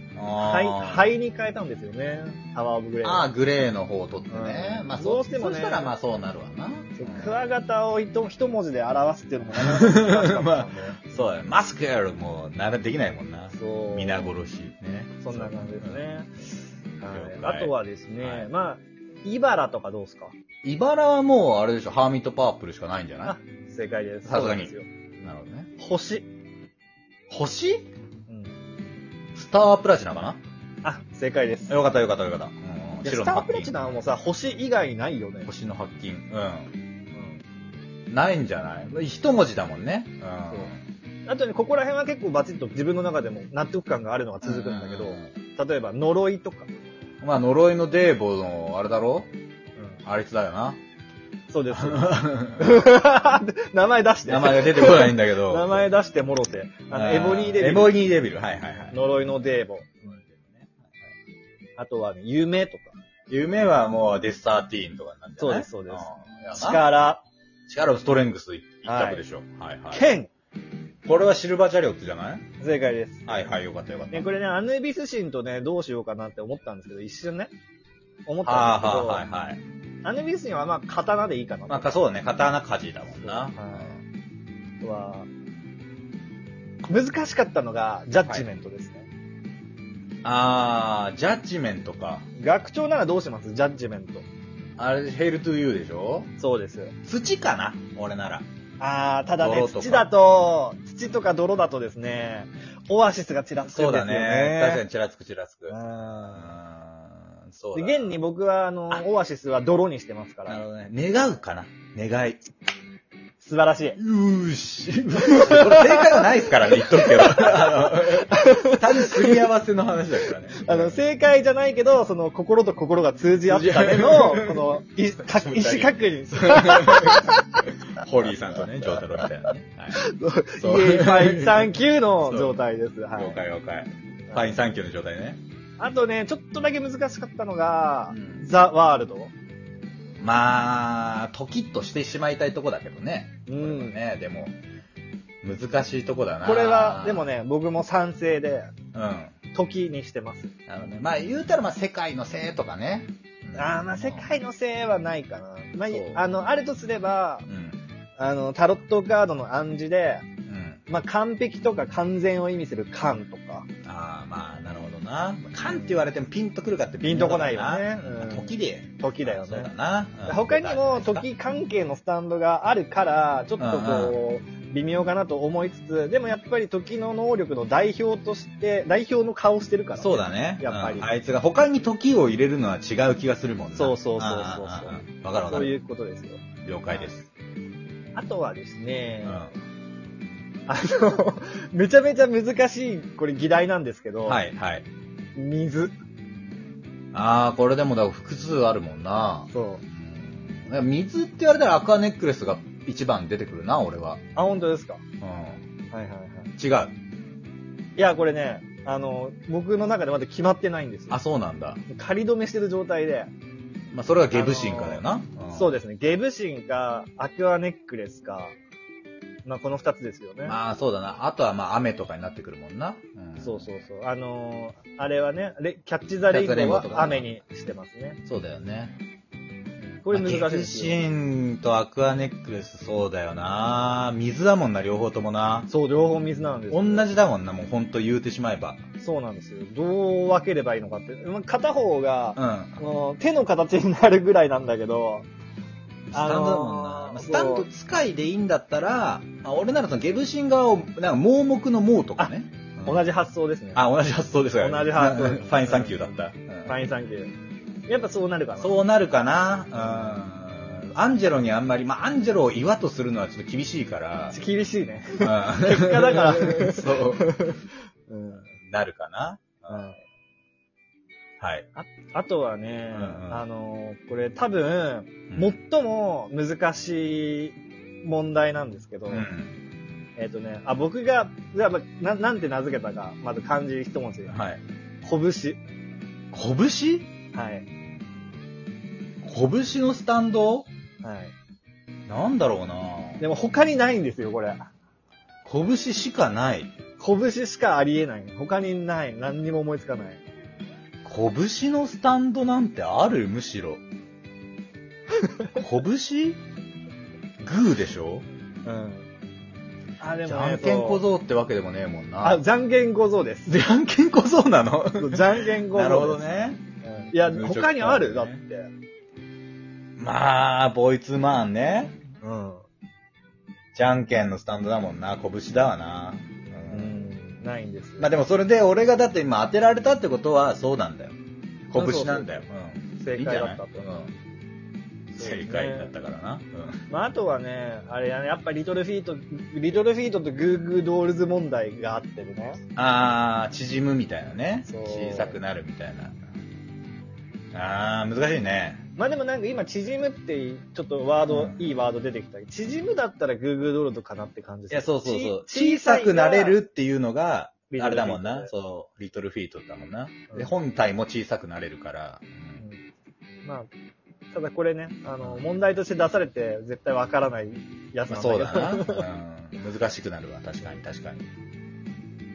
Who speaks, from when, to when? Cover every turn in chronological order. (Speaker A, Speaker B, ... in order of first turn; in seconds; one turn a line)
Speaker A: 0.1-1.1
Speaker B: 0.4-3.3
Speaker A: 3.0-7.4
Speaker B: 4.3-5.9
Speaker B: 7.0-11.1
Speaker A: 9.5-16.0
Speaker B: 13.5-14.3
Speaker B: 15.2-16.3
Speaker B: 17.0-20.3
Speaker A: 17.1-18.5
Speaker A: 20.6-23.4
Speaker B: 23.2-24.9
Speaker A: 24.2-25.7
Speaker B: 25.8-26.3
Speaker A: 27.3-27.9
Speaker B: 28.3-28.6
Speaker A: 29.3-30.4
Speaker B: 30.8-31.8
Speaker A: 31.7-33.8
Speaker B: 33.0-35.5
Speaker A: 35.5-36.7
Speaker B: 37.1-37.4
Speaker A: 38.1-40.8
Speaker B: 41.3-46.7
Speaker A: 44.4-45.3
Speaker A: 47.2-49.3
Speaker A: 50.0-50.8
Speaker B: 51.5-58.0
Speaker A: 51.7-52.9
Speaker A: 54.2-55.9
Speaker A: 56.9-59.0
Speaker B: 58.9-60.1
Speaker A: 60.1-60.9
Speaker B: 61.8-63.0
Speaker A: 63.3-66.9
Speaker B: 65.4-67.2
Speaker A: 67.7-70.0
Speaker B: 68.8-69.2
Speaker B: 69.9-70.3
Speaker A: 71.0-72.4
Speaker B: 72.6-73.3
Speaker A: 73.2-74.3
Speaker B: 74.1-77.5
Speaker B: 78.3-79.2
Speaker A: 78.4-79.6
Speaker B: 80.0-82.0
Speaker A: 81.7-84.0
Speaker B: 83.2-83.9
Speaker B: 84.8-85.3
Speaker B: 86.9-89.1
Speaker A: 90.2-92.2
Speaker B: 92.4-94.2
Speaker A: 94.8-96.3
Speaker B: 96.4-96.9
Speaker A: 97.0-98.5
Speaker B: 98.8-104.8
Speaker A: 99.4-100.1
Speaker A: 103.7-105.7
Speaker B: 105.7-106.6
Speaker A: 106.3-108.2
Speaker B: 107.7-110.6
Speaker A: 110.5-112.4
Speaker B: 113.4-114.0
Speaker A: 114.0-121.0
Speaker B: 115.2-119.4
Speaker B: 120.6-127.6
Speaker A: 123.5-132.6
Speaker B: 128.6-129.3
Speaker B: 129.9-133.4
Speaker A: 133.1-135.4
Speaker B: 134.3-134.6
Speaker B: 135.8-139.3
Speaker A: 138.1-138.5
Speaker A: 140.2-144.6
Speaker B: 143.5-143.9
Speaker A: 145.4-147.3
Speaker B: 146.4-148.7
Speaker A: 148.9-149.3
Speaker B: 149.5-150.5
Speaker A: 150.7-154.3
Speaker B: 153.5-157.5
Speaker A: 155.9-156.2
Speaker A: 157.5-157.8
Speaker B: 158.2-160.2
Speaker A: 160.5-160.8
Speaker B: 160.9-163.7
Speaker A: 163.8-171.2
Speaker B: 165.7-166.0
Speaker B: 167.0-169.7
Speaker B: 170.2-181.1
Speaker A: 173.6-174.2
Speaker A: 180.0-185.7
Speaker B: 183.7-187.1
Speaker A: 186.6-187.3
Speaker B: 188.1-189.4
Speaker A: 189.2-189.5
Speaker B: 190.7-194.4
Speaker A: 194.3-194.9
Speaker B: 195.3-195.9
Speaker A: 197.1-204.2
Speaker B: 199.5-199.8
Speaker B: 204.3-205.0
Speaker A: 205.2-205.6
Speaker B: 205.9-206.5
Speaker A: 206.6-206.9
Speaker B: 208.0-211.2
Speaker A: 211.1-211.8
Speaker B: 211.9-213.3
Speaker A: 213.9-215.8
Speaker B: 214.3-218.5
Speaker B: 219.4-220.6
Speaker A: 220.4-223.7
Speaker B: 223.4-228.2
Speaker A: 226.3-227.2
Speaker A: 228.2-229.0
Speaker B: 229.9-231.0
Speaker A: 230.1-235.7
Speaker B: 235.7-237.1
Speaker A: 236.7-238.8
Speaker B: 239.0-245.3
Speaker A: 242.3-242.8
Speaker A: 246.1-253.0
Speaker B: 246.1-247.7
Speaker B: 252.8-253.8
Speaker A: 253.7-256.7
Speaker B: 254.6-257.3
Speaker B: 257.9-258.7
Speaker A: 258.6-264.4
Speaker B: 259.7-260.2
Speaker B: 264.3-268.5
Speaker A: 265.2-267.4
Speaker A: 268.5-269.9
Speaker B: 269.7-270.0
Speaker A: 271.4-271.6
Speaker B: 271.7-279.3
Speaker A: 272.9-273.4
Speaker A: 275.3-275.6
Speaker A: 279.1-279.5
Speaker B: 280.2-284.4
Speaker A: 284.3-284.6
Speaker B: 285.0-285.6
Speaker A: 286.3-287.1
Speaker B: 287.3-287.6
Speaker A: 289.2-290.7
Speaker B: 291.0-291.3
Speaker A: 292.1-293.2
Speaker B: 293.2-294.7
Speaker A: 295.4-296.7
Speaker B: 297.0-300.2
Speaker A: 301.0-303.8
Speaker A: 305.6-306.4
Speaker A: 307.4-308.2
Speaker B: 308.6-309.1
Speaker B: 310.0-311.0
Speaker A: 310.2-312.4
Speaker B: 312.2-313.5
Speaker A: 313.5-316.6
Speaker B: 314.9-318.7
Speaker A: 317.2-318.4
Speaker A: 320.0-322.0
Speaker B: 322.2-322.6
Speaker A: 323.7-327.0
Speaker B: 326.7-328.1
Speaker A: 328.0-331.1
Speaker A: 331.7-334.1
Speaker B: 331.7-332.4
Speaker B: 333.0-333.9
Speaker B: 335.1-335.9
Speaker A: 335.2-336.8
Speaker B: 336.9-342.6
Speaker A: 342.8-346.3
Speaker B: 344.7-345.4
Speaker A: 347.5-348.8
Speaker B: 349.0-356.6
Speaker A: 351.3-351.6
Speaker A: 354.7-362.6
Speaker B: 357.7-358.5
Speaker B: 363.4-363.7
Speaker B: 364.3-369.1
Speaker A: 368.1-371.3